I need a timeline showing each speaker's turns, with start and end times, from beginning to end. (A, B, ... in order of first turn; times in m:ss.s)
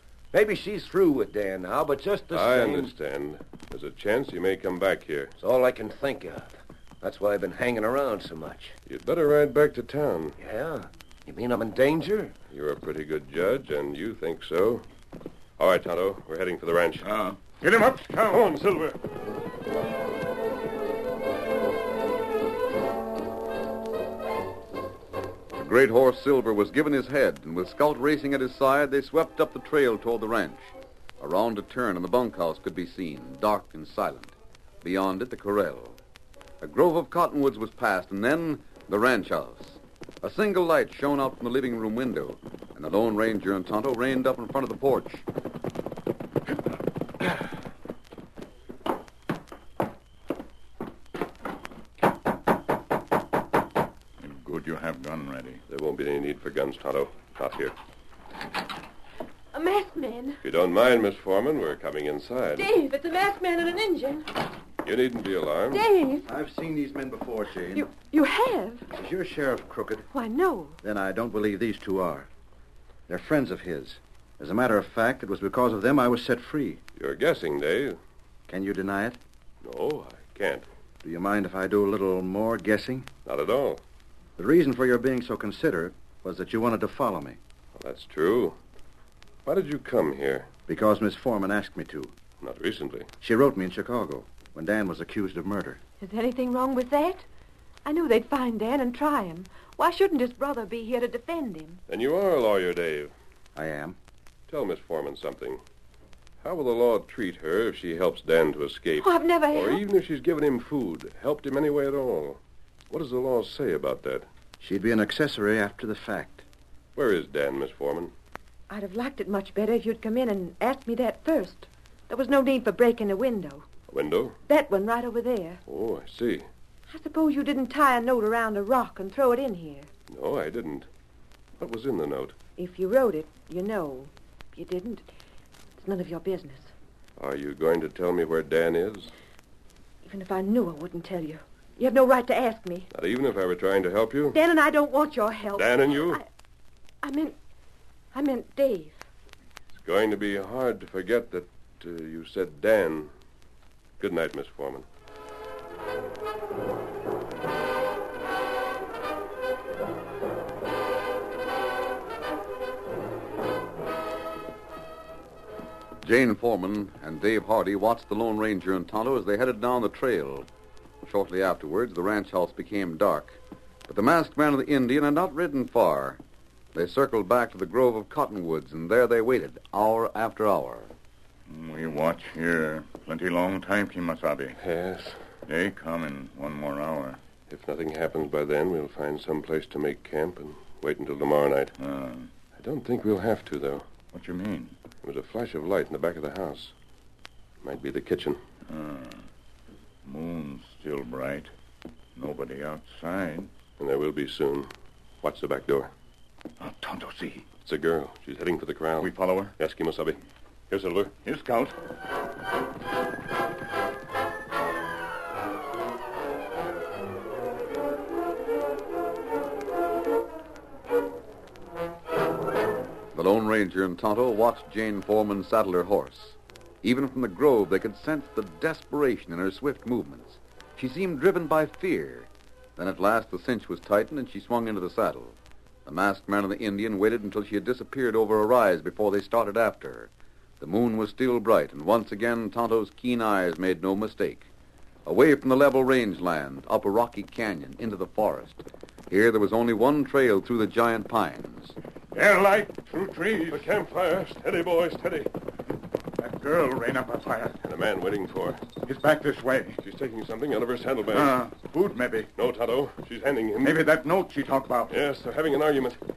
0:00.3-0:02.9 A
0:02.3-0:05.3 B
0:05.4-0:08.8 A
0:08.9-0:10.4 B
0:10.4-0:12.3 A
0:12.5-0:14.8 B
0:15.6-0:17.0 B
0:17.0-0:18.5 C
0:18.3-0:19.0 B
0:25.5-0:36.0 D
0:36.6-0:45.2 D
0:54.2-0:55.6 C
0:55.7-0:57.7 B
0:59.5-1:00.4 E
1:00.4-1:02.7 B
1:02.6-1:04.3 E
1:04.8-1:05.9 B
1:05.7-1:06.3 E
1:06.3-1:07.9 F
1:07.7-1:08.8 E
1:08.9-1:10.0 F
1:10.1-1:10.8 E
1:10.8-1:12.3 F
1:13.1-1:16.8 F
1:17.0-1:18.0 B
1:18.5-1:19.2 F
1:19.6-1:20.6 B
1:21.0-1:23.1 F
1:23.2-1:23.8 B
1:24.4-1:27.4 F
1:27.8-1:28.6 B
1:29.4-1:30.5 B
1:30.7-1:32.1 F
1:32.4-1:33.1 B
1:33.2-1:35.8 F
1:36.0-1:37.2 E
1:37.8-1:41.8 E
1:41.9-1:43.1 B
1:43.5-1:44.0 F
1:44.5-1:45.6 B
1:46.4-1:52.4 B
1:49.0-1:49.8 E
1:52.9-1:54.3 B
1:54.6-1:56.4 F
1:57.0-1:58.1 B
1:58.7-2:03.6 E
2:03.9-2:04.4 B
2:04.5-2:05.6 E
2:05.7-2:06.5 B
2:06.9-2:09.9 E
2:10.1-2:10.9 B
2:11.6-2:12.3 B
2:12.6-2:15.1 E
2:15.8-2:16.7 E
2:17.2-2:19.1 B
2:20.0-2:22.9 E
2:22.9-2:24.4 B
2:24.3-2:26.2 E
2:25.5-2:26.2 B
2:27.0-2:27.4 E
2:28.1-2:29.0 E
2:29.8-2:33.1 B
2:34.0-2:34.8 B
2:46.0-2:50.5 D
2:51.0-2:56.2 D
2:56.7-3:00.9 D
3:01.5-3:04.6 C
3:04.6-3:05.2 B
3:05.5-3:07.2 C
3:07.5-3:11.7 B
3:11.8-3:12.3 C
3:12.6-3:13.8 B
3:14.1-3:14.8 C
3:15.0-3:16.7 B
3:17.6-3:18.4 B
3:18.7-3:19.2 C
3:20.0-3:21.5 C
3:22.2-3:23.5 C
3:23.8-3:24.7 B
3:25.2-3:25.9 B
3:26.6-3:27.4 C
3:27.6-3:30.2 B
3:29.0-3:29.5 C
3:30.7-3:31.1 B
3:31.2-3:31.7 C
3:43.1-4:04.5 D
4:05.0-4:11.7 D
4:12.1-4:13.7 C
4:13.5-4:15.3 B
4:16.2-4:17.6 C
4:17.6-4:18.6 B
4:18.8-4:19.8 C
4:19.8-4:21.4 B
4:21.1-4:22.3 C
4:22.4-4:23.8 B
4:23.6-4:24.9 C
4:24.9-4:26.0 B